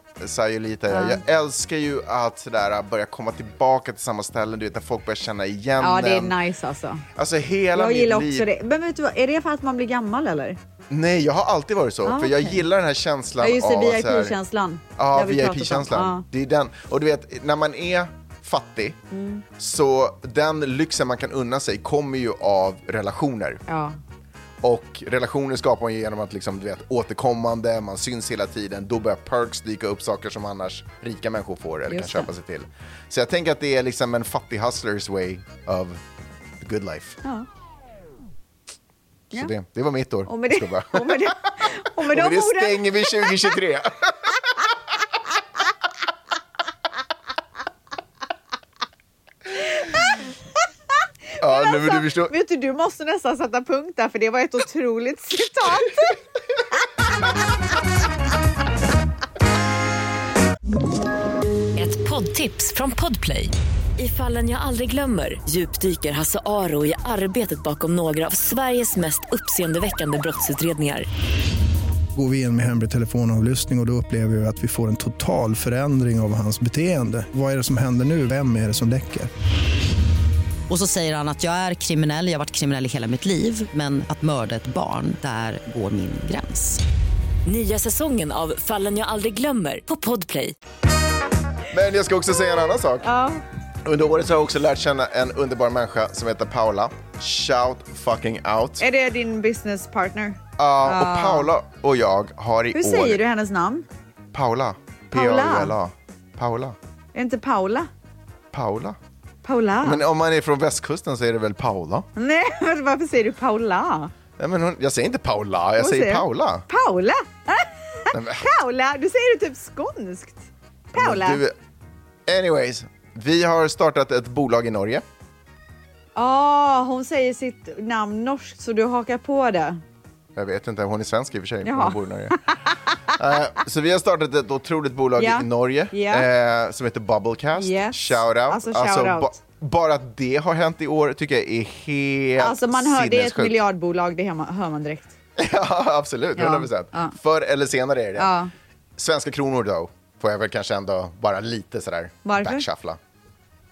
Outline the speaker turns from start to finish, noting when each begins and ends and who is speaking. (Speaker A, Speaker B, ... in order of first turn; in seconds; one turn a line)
Speaker A: 0.2-6.4
Speaker B: 0.9-1.2
Speaker B: 5.8-7.1
Speaker A: 7.2-8.5
Speaker B: 7.7-10.6
Speaker A: 10.9-14.4
Speaker B: 12.1-12.7
Speaker B: 13.4-16.2
Speaker A: 15.0-19.0
Speaker B: 19.1-19.4
Speaker A: 19.6-23.6
Speaker B: 23.7-24.0
Speaker A: 24.6-36.0
Speaker B: 31.9-32.3
Speaker A: 36.6-37.2
Speaker A: 39.3-41.4
Speaker B: 40.3-43.5
Speaker A: 42.1-44.4
Speaker B: 49.8-50.3
Speaker A: 51.4-52.3
Speaker B: 51.4-56.2
Speaker C: 61.8-71.1
Speaker D: 72.2-79.3
Speaker E: 80.7-86.8
Speaker C: 87.5-90.5
Speaker A: 91.7-93.1
Speaker B: 93.0-93.4
Speaker A: 93.8-98.8
Speaker B: 98.8-101.5
Speaker A: 100.6-103.2
Speaker B: 102.7-103.9
Speaker A: 104.3-106.8
Speaker B: 105.1-105.7
Speaker B: 107.1-107.9
Speaker A: 108.5-109.0
Speaker B: 109.4-110.0
Speaker A: 109.8-112.1
Speaker B: 112.2-114.1
Speaker A: 114.4-116.7
Speaker B: 115.8-121.4
Speaker A: 118.1-118.5
Speaker A: 120.9-121.5
Speaker A: 122.3-125.0
Speaker B: 126.2-129.8
Speaker A: 130.3-132.4
Speaker B: 131.6-133.1
Speaker A: 133.1-143.6
Speaker B: 135.2-136.3
Speaker B: 137.5-139.4
Speaker B: 142.4-145.1
Speaker A: 145.4-148.3
Speaker B: 146.4-147.2
Speaker B: 148.2-148.5
Speaker A: 149.0-153.0
Speaker B: 152.2-152.7